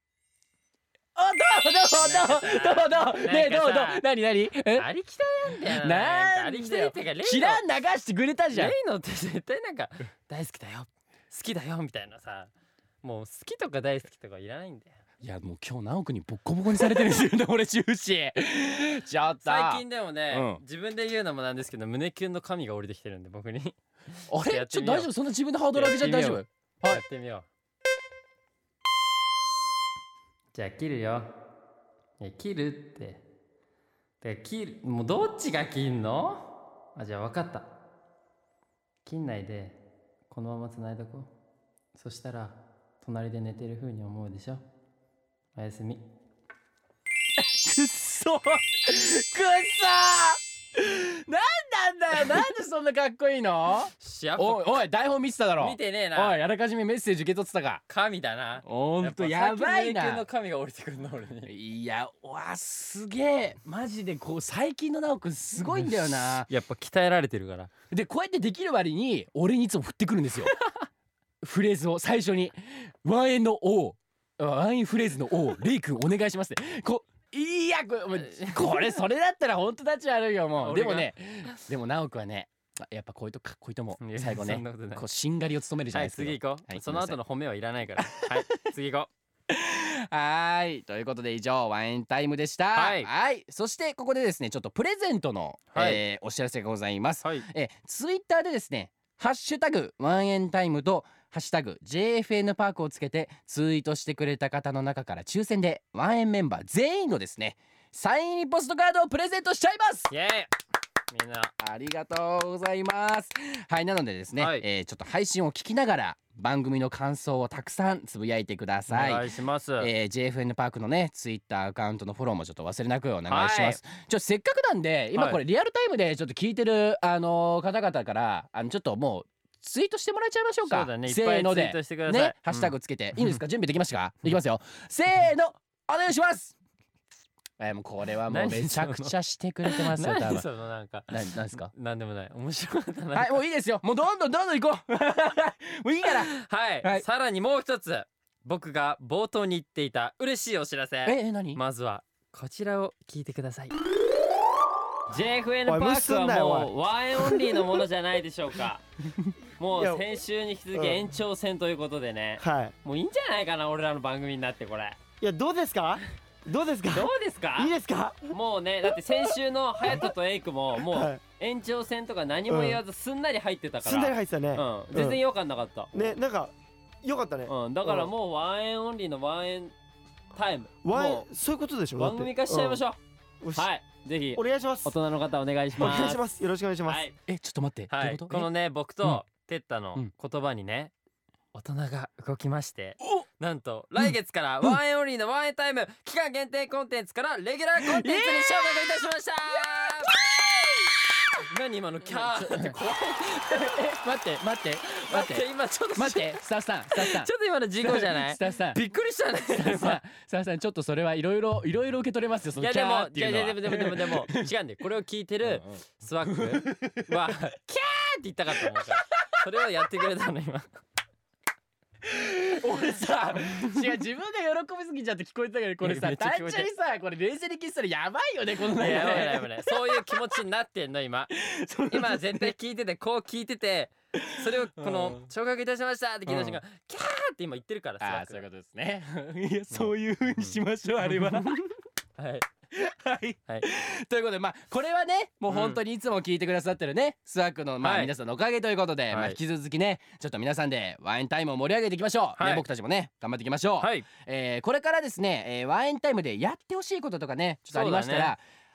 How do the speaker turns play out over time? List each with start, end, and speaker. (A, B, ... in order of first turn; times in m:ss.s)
0:01.2-0:04.9 A
0:01.9-0:04.0 B
0:04.7-0:07.6 B
0:05.5-0:08.8 A
0:08.5-0:14.9 B
0:15.2-0:20.6 A
0:19.4-0:25.1 B
0:24.3-0:27.0 A
0:25.7-0:27.4 B
0:30.5-0:31.3 B
0:32.2-0:33.2 B
0:34.2-0:37.7 B
0:39.0-0:39.8 B
0:40.3-0:41.3 B
0:41.9-0:44.6 B
0:45.5-0:46.0 B
0:47.4-0:57.8 A
0:54.0-0:54.8 B
0:55.6-0:56.4 B
0:57.9-1:01.5 B
0:58.6-1:00.2 A
1:01.4-1:06.5 A
1:05.6-1:07.7 B
1:07.9-1:10.5 A
1:10.5-1:10.9 B
1:11.4-1:27.2 A
1:18.3-1:18.9 B
1:20.6-1:21.6 B
1:24.0-1:25.0 B
1:25.9-1:29.1 B
1:28.0-1:28.4 A
1:29.5-1:50.1 A
1:32.7-1:33.1 B
1:35.7-1:36.0 B
1:50.1-1:50.5 B
1:51.1-1:51.5 B
1:51.6-2:16.5 A
1:54.4-1:54.6 B
1:58.9-1:59.9 B
2:03.3-2:03.8 B
2:05.1-2:05.4 B
2:10.6-2:13.4 B
2:17.6-2:20.4 A
2:18.3-2:19.1 B
2:19.6-2:23.4 B
2:21.1-2:21.7 A
2:23.1-2:27.0 A
2:26.0-2:33.8 B
2:31.0-2:31.6 A
2:35.1-2:38.8 B
2:35.6-2:37.8 C
2:39.6-2:45.0 B
2:39.6-2:40.1 C
2:40.7-2:41.0 C
2:42.4-2:42.7 C
2:45.2-2:48.4 C
2:46.9-2:47.7 B
2:48.3-2:56.1 B
2:48.9-2:50.1 C
2:50.8-2:51.2 C
2:52.5-2:52.8 C
2:53.8-2:55.2 C
2:55.9-2:58.1 C
2:57.5-2:59.7 B
3:00.3-3:01.3 B
3:00.8-3:02.8 C
3:02.0-3:03.0 B
3:03.4-3:03.7 C
3:03.5-3:06.2 B
3:04.3-3:04.9 C
3:05.8-3:07.0 C
3:06.9-3:07.2 B
3:07.3-3:08.5 A
3:07.9-3:10.9 B
3:11.5-3:20.2 B
3:17.8-3:18.8 A
3:20.1-3:20.7 A
3:21.3-3:23.9 B
3:22.0-3:22.8 A
3:23.5-3:27.3 A
3:25.0-3:26.4 B
3:26.9-3:30.0 B
3:27.8-3:28.8 A
3:29.5-3:34.5 A
3:32.6-3:40.7 B
3:35.4-3:37.2 A
3:38.5-3:39.4 A
3:42.0-3:50.4 A
3:45.8-3:46.7 B
3:48.6-3:51.3 B
3:51.3-3:52.5 A
3:51.9-3:58.4 B
3:54.2-3:55.2 A
3:56.3-3:56.6 A
3:58.0-4:01.6 A
3:59.7-4:02.4 B
4:02.7-4:18.4 A
4:05.5-4:05.8 B
4:07.8-4:08.1 B
4:09.1-4:09.4 B
4:12.4-4:12.6 B
4:13.8-4:14.0 B
4:17.7-4:18.3 B